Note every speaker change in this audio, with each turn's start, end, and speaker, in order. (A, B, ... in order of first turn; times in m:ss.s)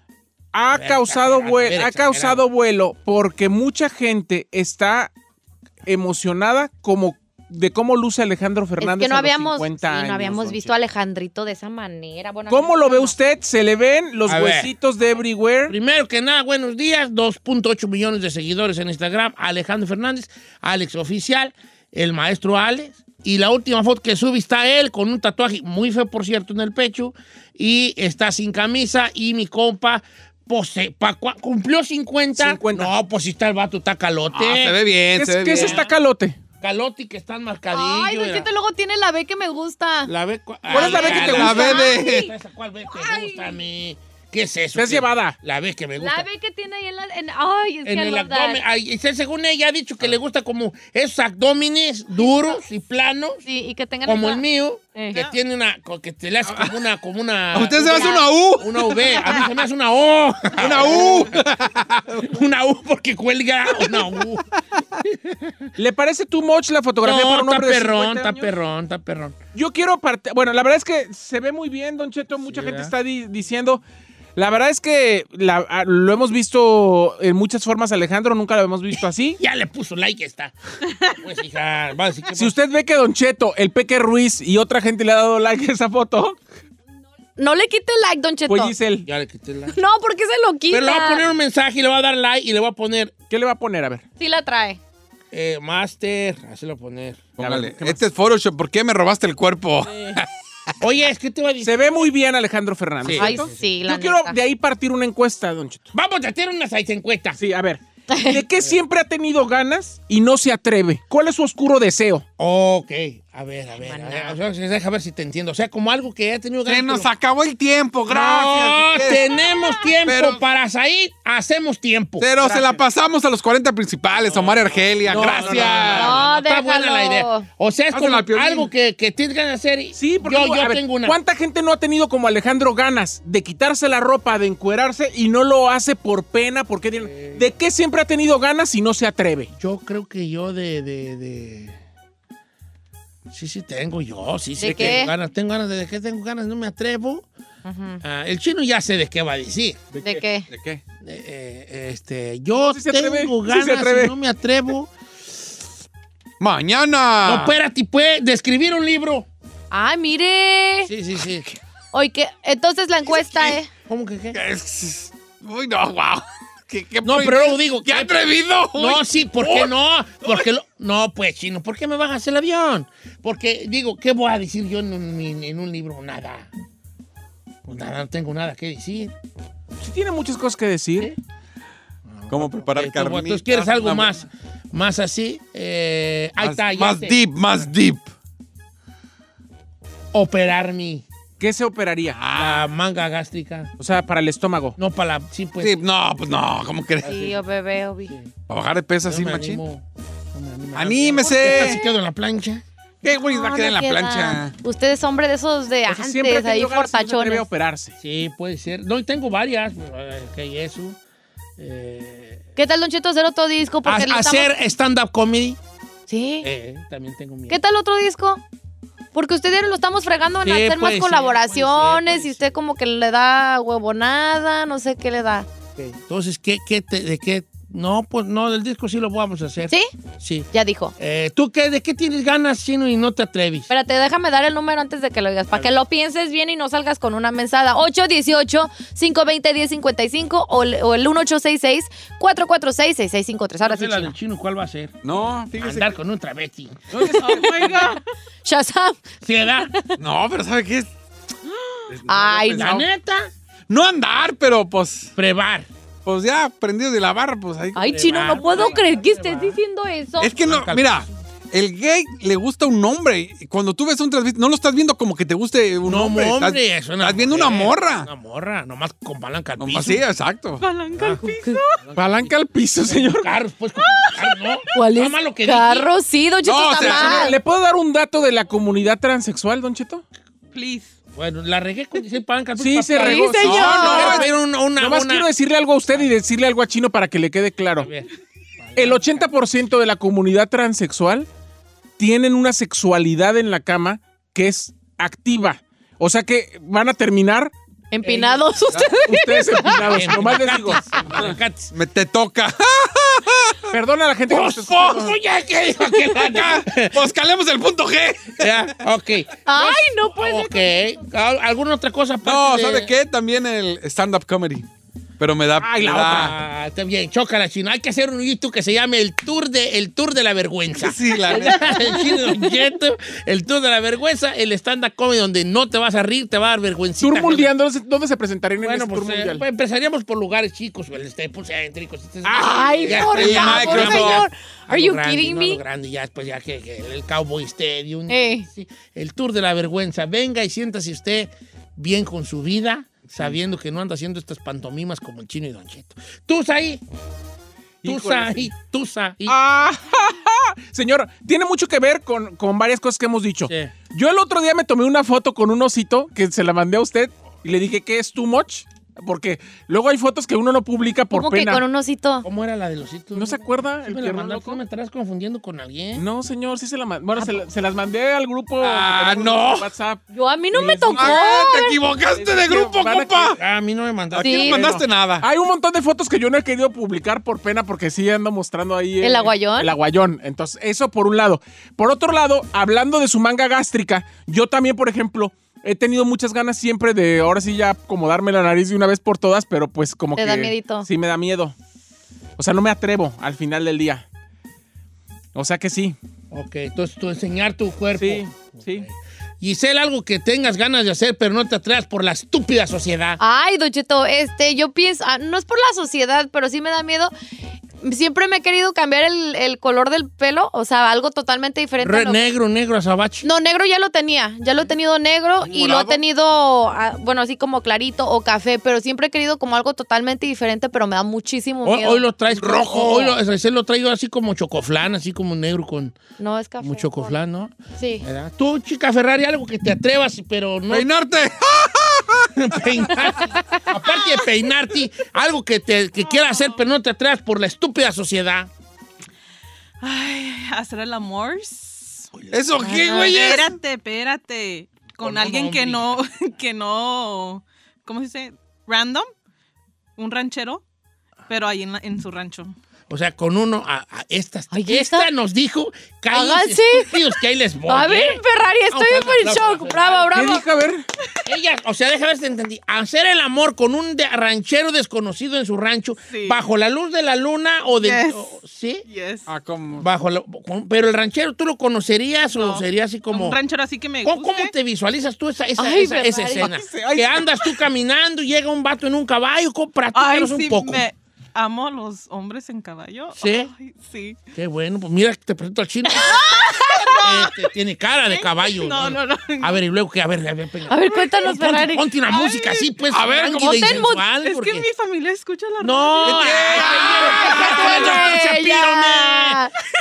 0:00.5-0:05.1 A
0:00.7-0:02.4 B
0:05.8-0:10.7 A
0:08.8-0:13.1 C
0:12.5-0:15.7 A
0:14.3-0:14.7 B
0:15.7-0:34.8 B
0:32.4-0:32.9 A
0:34.3-0:35.8 D
0:35.1-0:36.4 A
0:35.4-0:35.9 B
0:36.6-0:38.5 B
0:37.7-0:40.1 C
0:40.0-0:46.3 B
0:40.7-0:42.3 C
0:40.7-0:41.6 A
0:41.1-0:42.3 D
0:42.8-0:43.6 C
0:44.8-0:45.4 A
0:46.0-0:48.6 C
0:47.8-0:53.4 B
0:52.2-0:52.5 C
0:53.4-0:55.2 C
0:54.0-1:01.4 B
0:57.5-0:59.3 D
0:57.8-0:58.2 C
1:00.6-1:02.3 D
1:02.1-1:05.7 B
1:05.8-1:08.5 A
1:07.0-1:09.4 B
1:09.5-1:13.8 A
1:12.4-1:12.9 B
1:14.4-1:19.4 A
1:19.4-1:22.5 B
1:22.4-1:26.4 A
1:27.4-1:28.7 C
1:28.5-1:29.1 A
1:29.0-1:29.8 B
1:29.7-1:31.2 C
1:30.7-1:33.1 B
1:33.3-1:34.0 A
1:34.2-1:34.8 C
1:35.3-1:37.3 B
1:37.4-1:40.3 D
1:37.4-1:38.0 A
1:40.8-1:41.8 B
1:41.6-1:45.9 A
1:43.0-1:43.6 B
1:43.2-1:44.4 C
1:45.9-1:47.4 B
1:47.4-1:52.2 A
1:48.1-1:48.4 C
1:52.4-1:57.1 B
1:53.8-1:54.4 C
1:56.6-1:59.2 D
1:58.1-2:02.6 B
2:00.0-2:00.4 D
2:02.2-2:06.2 D
2:02.4-2:02.8 A
2:04.2-2:06.1 A
2:05.0-2:11.2 B
2:05.9-2:07.4 C
2:07.9-2:08.7 D
2:09.9-2:19.5 A
2:17.0-2:17.5 B
2:19.5-2:21.8 B
2:23.3-2:27.3 B
2:24.6-2:25.1 C
2:27.6-2:28.0 C
2:28.0-2:29.8 B
2:29.9-2:30.2 A
2:30.0-2:30.4 C
2:30.5-2:30.8 D
2:31.0-2:34.9 B
2:32.6-2:34.1 A
2:36.4-2:37.6 D
2:37.2-2:39.3 B
2:39.7-2:40.9 C
2:40.8-2:41.6 B
2:41.9-2:43.7 C
2:43.2-2:43.5 D
2:43.8-2:44.4 B
2:44.3-2:49.7 D
2:47.0-2:56.5 B
2:57.6-2:59.1 B
2:59.8-3:01.1 A
3:02.1-3:07.2 B
3:02.3-3:04.2 D
3:06.4-3:08.1 D
3:10.1-3:11.0 B
3:11.4-3:12.2 A
3:12.1-3:12.7 D
3:12.3-3:13.7 B
3:13.8-3:14.8 A
3:14.8-3:15.8 B
3:15.6-3:17.1 D
3:17.0-3:17.4 B
3:17.0-3:18.1 C
3:18.1-3:18.3 B
3:18.5-3:19.6 D
3:19.0-3:22.6 B
3:20.7-3:21.8 D
3:23.0-3:24.5 D
3:23.3-3:27.4 C
3:25.9-3:27.9 A
3:28.0-3:31.0 B
3:31.6-3:32.4 B
3:32.6-3:34.5 C
3:33.8-3:35.6 B
3:36.1-3:36.5 C
3:36.4-3:37.6 B
3:37.5-3:38.4 C
3:39.1-3:45.5 C
3:40.4-3:42.5 B
3:45.8-3:53.7 B
3:50.5-3:50.9 C
3:53.7-4:04.1 C
4:03.6-4:05.0 B
4:05.0-4:05.9 D
4:05.5-4:06.8 B
4:06.9-4:08.0 A
4:07.0-4:07.9 C
4:07.1-4:08.0 E
4:08.4-4:09.9 C
4:09.2-4:09.7 B
4:10.0-4:10.9 D
4:11.9-4:12.9 D
4:12.1-4:12.8 C
4:12.5-4:13.3 B
4:13.7-4:15.1 D
4:15.2-4:15.7 B
4:16.0-4:18.8 D
4:17.7-4:20.3 C
4:17.9-4:19.6 B
4:20.2-4:28.1 D
4:20.4-4:21.1 B
4:25.8-4:30.0 B
4:29.6-4:30.6 D
4:30.6-4:31.8 E
4:30.9-4:31.2 B
4:31.2-4:31.6 C
4:31.8-4:35.9 B
4:31.9-4:33.3 A
4:33.8-4:34.4 E
4:34.7-4:37.4 C
4:36.4-4:37.3 D
4:36.8-4:40.0 A
4:40.5-4:40.9 E
4:41.1-4:45.3 B
4:42.6-4:47.9 A
4:43.0-4:44.2 C
4:43.4-4:44.2 D
4:47.8-4:49.3 B
4:48.8-4:51.3 A
4:52.0-4:57.5 A
4:57.9-4:59.8 C
4:58.0-4:58.4 B
4:59.0-5:00.8 A
4:59.8-5:01.7 B
5:01.2-5:03.6 D
5:03.7-5:05.2 A
5:04.3-5:07.0 B
5:06.1-5:08.7 D
5:08.4-5:12.9 B
5:09.4-5:10.8 C
5:12.2-5:14.7 D
5:15.2-5:16.3 D
5:15.6-5:16.3 A
5:15.8-5:27.5 B
5:20.8-5:21.7 D
5:27.0-5:29.4 A
5:28.6-5:46.8 B
5:32.3-5:35.6 C
5:32.4-5:34.2 D
5:38.1-5:38.4 C
5:47.8-5:48.5 A
5:47.8-5:49.4 B
5:49.3-6:01.6 A
5:53.5-5:53.7 B
6:01.1-6:02.2 C
6:02.2-6:06.0 B
6:03.1-6:04.6 A
6:05.9-6:10.0 A
6:07.2-6:07.4 C
6:08.6-6:09.7 D
6:10.1-6:11.8 C
6:10.5-6:11.2 A
6:11.0-6:13.4 D
6:12.1-6:13.4 A
6:13.3-6:14.8 B
6:14.1-6:15.2 D
6:14.2-6:14.7 C
6:15.2-6:31.5 A
6:19.0-6:19.7 C
6:30.2-6:30.9 C
6:32.4-6:34.0 A
6:35.3-6:36.0 A
6:36.3-6:43.2 B
6:38.0-6:38.9 A
6:43.2-6:47.1 C
6:47.8-6:52.3 C
6:51.8-6:53.3 B
6:53.2-7:02.0 C
6:55.4-6:56.0 D
7:01.6-7:06.0 B
7:02.3-7:03.2 D
7:06.2-7:07.1 C
7:06.6-7:10.9 B
7:07.8-7:08.0 C
7:10.7-7:12.3 D
7:12.3-7:18.5 B
7:16.1-7:16.6 E
7:19.8-7:29.1 E
7:22.1-7:22.4 B
7:22.3-7:23.6 D
7:25.0-7:26.0 B
7:30.0-7:30.6 E
7:31.3-7:32.5 E
7:32.9-7:40.4 B
7:34.5-7:35.1 C
7:36.1-7:37.0 C
7:37.7-7:40.4 C
7:40.1-7:40.8 A
7:41.2-7:48.8 B
7:46.1-7:46.4 E
7:47.8-7:48.3 E
7:48.8-7:49.3 E
7:49.3-7:49.9 D
7:49.8-7:53.4 B
7:52.3-7:54.5 E
7:54.0-8:00.8 B
7:55.6-7:56.5 C
7:56.4-7:57.0 E
7:59.9-8:04.2 E
8:03.2-8:03.5 B
8:04.3-8:14.7 B
8:05.9-8:07.5 E
8:08.1-8:09.6 E
8:10.7-8:11.9 C
8:12.1-8:12.7 E
8:12.8-8:13.7 D
8:13.4-8:14.0 C
8:14.2-8:16.6 E
8:15.6-8:19.4 B
8:16.0-8:18.0 D
8:16.5-8:19.5 C